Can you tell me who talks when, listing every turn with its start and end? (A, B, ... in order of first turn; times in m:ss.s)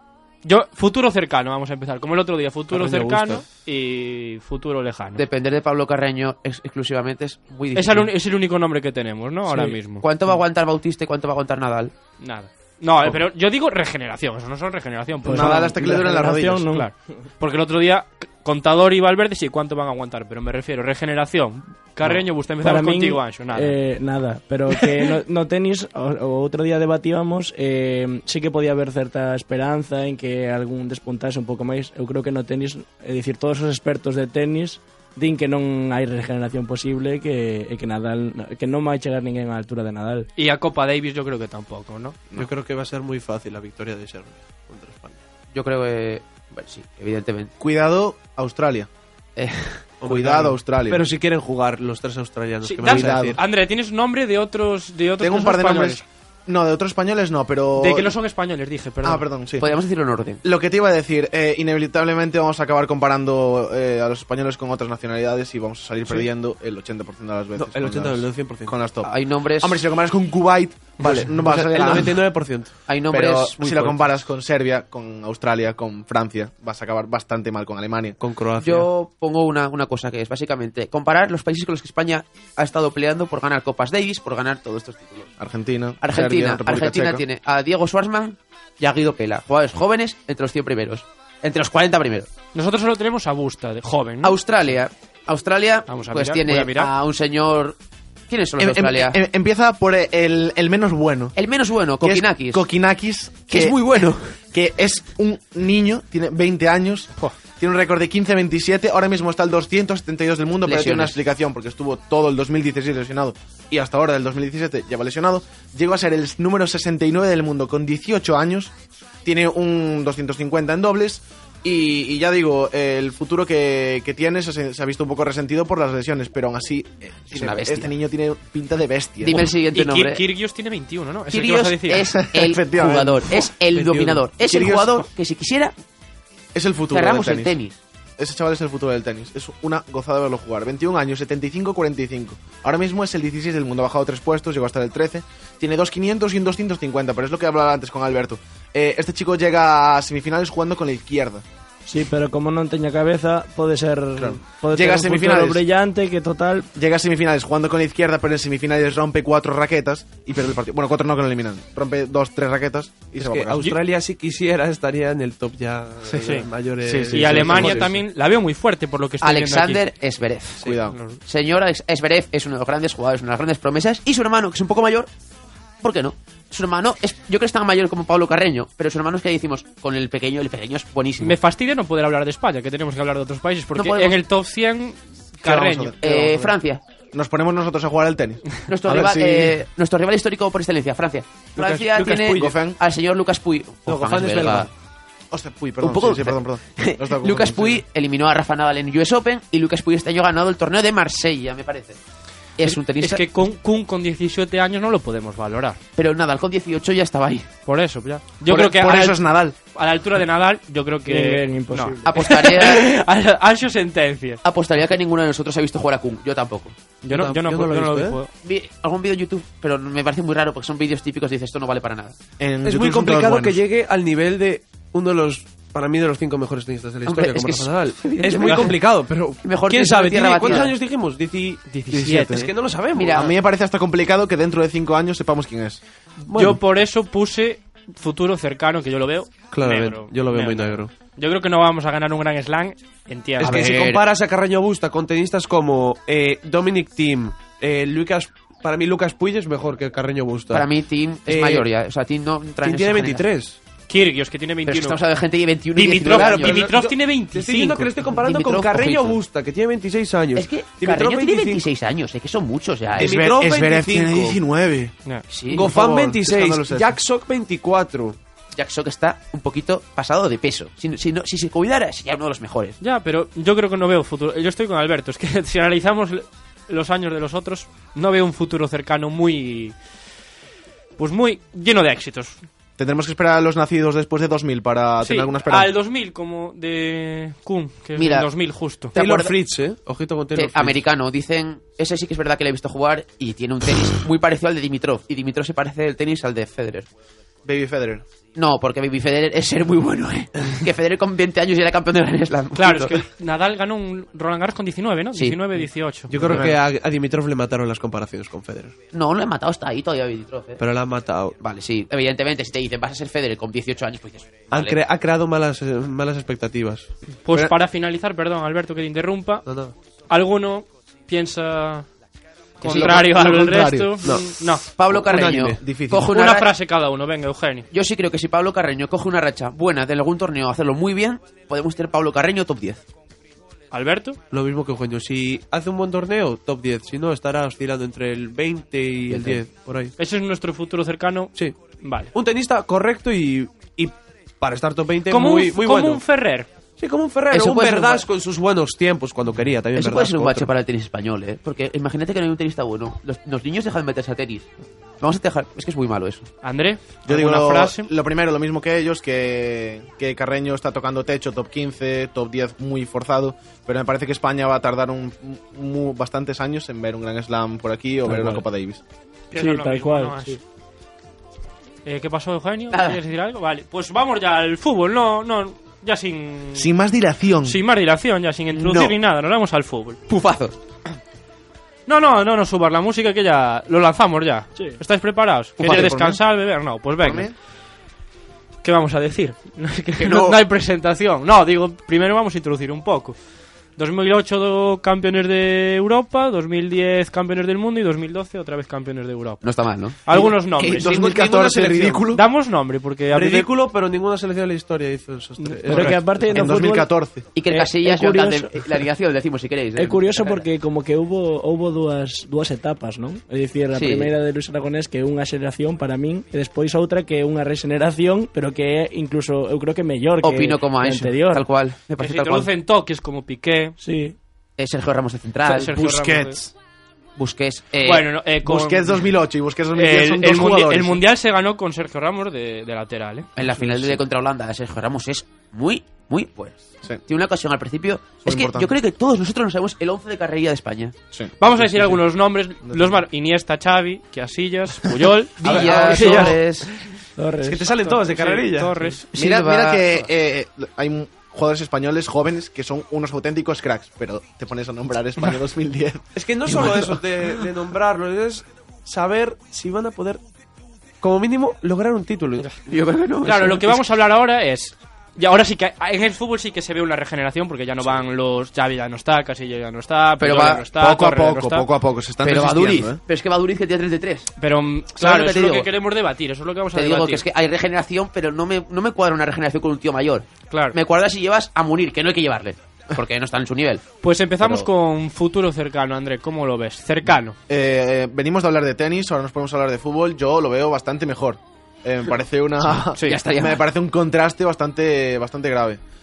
0:00.4-0:05.2 A
0:02.7-0:03.4 B
0:05.2-0:08.1 C
0:07.7-0:10.0 A
0:10.0-0:11.9 C
0:12.2-0:15.7 A
0:15.2-0:16.7 D
0:15.2-0:16.9 E
0:16.7-0:23.8 A
0:22.6-0:40.3 E
0:40.4-0:42.2 A
0:42.3-0:45.2 B
0:45.5-0:47.5 C
0:47.6-0:48.9 D
0:49.4-0:49.9 C
0:50.0-0:53.4 B
0:50.0-0:51.0 D
0:52.6-0:56.0 A
0:52.8-0:53.4 D
0:55.2-0:58.1 D
0:57.8-0:59.3 A
0:59.0-0:59.7 D
0:59.6-1:00.4 C
1:00.4-1:12.2 D
1:07.6-1:08.8 B
1:09.0-1:09.8 C
1:11.0-1:12.7 B
1:12.9-1:14.1 C
1:13.1-1:18.2 D
1:18.2-1:18.9 B
1:18.6-1:25.3 C
1:25.4-1:27.2 D
1:26.0-1:32.3 C
1:32.5-1:34.4 A
1:34.2-1:37.8 C
1:35.9-1:36.9 A
1:38.3-1:39.2 C
1:38.6-1:41.4 D
1:41.4-1:42.7 C
1:42.0-1:43.8 D
1:43.5-1:44.2 C
1:44.5-1:58.7 D
1:50.6-1:51.2 C
1:59.2-2:09.4 D
2:07.3-2:07.9 C
2:09.2-2:10.2 C
2:09.2-2:12.2 A
2:11.3-2:15.8 C
2:12.2-2:13.3 D
2:13.7-2:14.4 B
2:14.4-2:15.0 D
2:16.5-2:17.5 D
2:16.9-2:17.8 C
2:18.2-2:31.4 D
2:31.8-2:36.7 E
2:34.2-2:35.6 D
2:36.7-2:43.7 D
2:43.1-2:48.0 B
2:46.1-2:49.8 A
2:46.8-2:47.7 D
2:49.2-2:50.7 C
2:50.6-2:51.0 D
2:50.9-2:51.2 A
2:51.2-2:55.1 C
2:55.8-3:01.4 C
3:01.2-3:06.4 A
3:03.7-3:04.2 C
3:05.4-3:06.4 D
3:06.0-3:06.8 C
3:07.1-3:09.6 D
3:08.6-3:14.7 C
3:11.6-3:12.6 B
3:12.4-3:12.8 D
3:13.9-3:14.7 B
3:15.3-3:17.8 D
3:15.8-3:22.0 C
3:22.6-3:23.2 C
3:22.6-3:25.8 A
3:26.0-3:27.5 C
3:27.6-3:34.4 A
3:28.5-3:29.5 D
3:31.0-3:32.1 E
3:32.0-3:32.9 C
3:34.4-3:36.8 C
3:37.0-3:38.3 A
3:37.1-3:38.2 B
3:38.4-3:42.2 C
3:42.4-3:43.6 D
3:42.6-3:53.3 B
3:47.0-3:48.8 C
3:49.4-3:50.8 C
3:51.7-3:52.5 A
3:51.9-3:52.5 D
3:52.9-3:53.3 C
3:53.2-3:55.8 D
3:56.3-3:56.6 B
3:56.3-4:03.7 A
3:59.5-4:00.9 B
4:03.4-4:10.7 B
4:03.4-4:04.0 C
4:03.5-4:04.0 D
4:10.5-4:13.3 C
4:11.3-4:11.7 B
4:12.6-4:13.6 B
4:13.9-4:15.0 A
4:14.6-4:16.6 C
4:15.7-4:17.9 A
4:16.0-4:21.6 B
4:18.1-4:19.2 C
4:20.3-4:23.2 C
4:23.0-4:24.4 B
4:23.0-4:24.9 D
4:25.3-4:25.7 C
4:25.5-4:28.2 B
4:25.5-4:26.9 D
4:28.5-4:32.8 C
4:32.8-4:39.8 A
4:41.0-4:42.4 A
4:42.8-4:45.7 D
4:45.0-4:48.9 A
4:48.0-4:48.3 C
4:48.9-4:49.4 C
4:48.9-4:50.8 B
4:50.3-4:56.9 C
4:57.4-4:58.0 D
4:58.3-5:03.0 C
5:02.6-5:06.5 A
5:05.1-5:05.4 C
5:06.1-5:08.7 B
5:06.2-5:06.6 D
5:08.9-5:10.6 C
5:10.6-5:11.3 B
5:11.4-5:14.8 C
5:14.5-5:16.9 B
5:17.2-5:19.4 A
5:19.4-5:19.7 B
5:20.1-5:21.9 A
5:22.6-5:24.6 A
5:22.6-5:24.0 D
5:22.6-5:23.0 C
5:24.0-5:25.6 B
5:24.8-5:26.5 C
5:25.6-5:26.1 D
5:26.0-5:27.7 A
5:27.7-5:32.8 C
5:33.7-5:34.2 A
5:34.3-5:39.9 B
5:39.1-5:39.4 C
5:40.0-5:42.1 A
5:42.1-5:46.0 B
5:45.1-5:46.5 A
5:46.8-5:50.5 B
5:47.3-5:48.0 C
5:49.7-5:54.5 C
5:55.0-5:56.3 C
5:56.4-5:57.9 A
5:57.1-6:08.8 D
6:08.0-6:08.4 E
6:09.3-6:10.4 A
6:09.3-6:10.4 E
6:11.8-6:16.7 A
6:12.7-6:13.0 C
6:16.6-6:17.6 D
6:17.4-6:20.0 A
6:18.5-6:19.0 C
6:20.1-6:20.6 C
6:21.9-6:27.3 A
6:25.6-6:26.2 D
6:27.0-6:27.3 D
6:28.6-6:33.2 A
6:30.0-6:30.4 C
6:33.8-6:39.4 A
6:39.4-6:40.0 C
6:40.0-6:41.0 A
6:40.1-6:42.2 D
6:40.1-6:42.1 B
6:42.1-6:43.5 A
6:43.1-6:46.0 B
6:45.4-6:45.9 A
6:45.7-6:48.7 E
6:45.9-6:47.4 D
6:46.3-6:46.6 C
6:47.3-6:50.4 C
6:49.8-7:01.5 E
6:53.7-6:54.1 C
7:00.2-7:02.5 C
7:02.0-7:03.7 A
7:03.8-7:04.2 E
7:04.6-7:05.8 C
7:05.4-7:06.4 A
7:05.8-7:06.5 D
7:07.2-7:08.1 C
7:07.8-7:09.1 A
7:08.4-7:11.0 D
7:09.7-7:13.9 A
7:13.4-7:21.0 C
7:18.2-7:18.7 D
7:21.1-7:22.0 D
7:21.4-7:26.4 A
7:22.6-7:23.0 D
7:25.4-7:26.4 B
7:25.4-7:26.7 C
7:27.2-7:27.8 E
7:27.4-7:28.8 B
7:27.8-7:29.1 A
7:29.1-7:30.1 C
7:29.2-7:36.1 D
7:36.1-7:40.2 B
7:41.0-7:42.5 B
7:42.6-7:43.8 C
7:43.2-7:51.7 A
7:50.2-7:50.7 C
7:50.7-7:53.0 D
7:52.2-7:54.3 C
7:54.4-7:57.2 A
7:55.0-7:55.7 C
7:56.7-8:03.8 C
8:00.5-8:00.7 A
8:04.0-8:07.4 A
8:07.5-8:15.8 D
8:12.7-8:13.6 C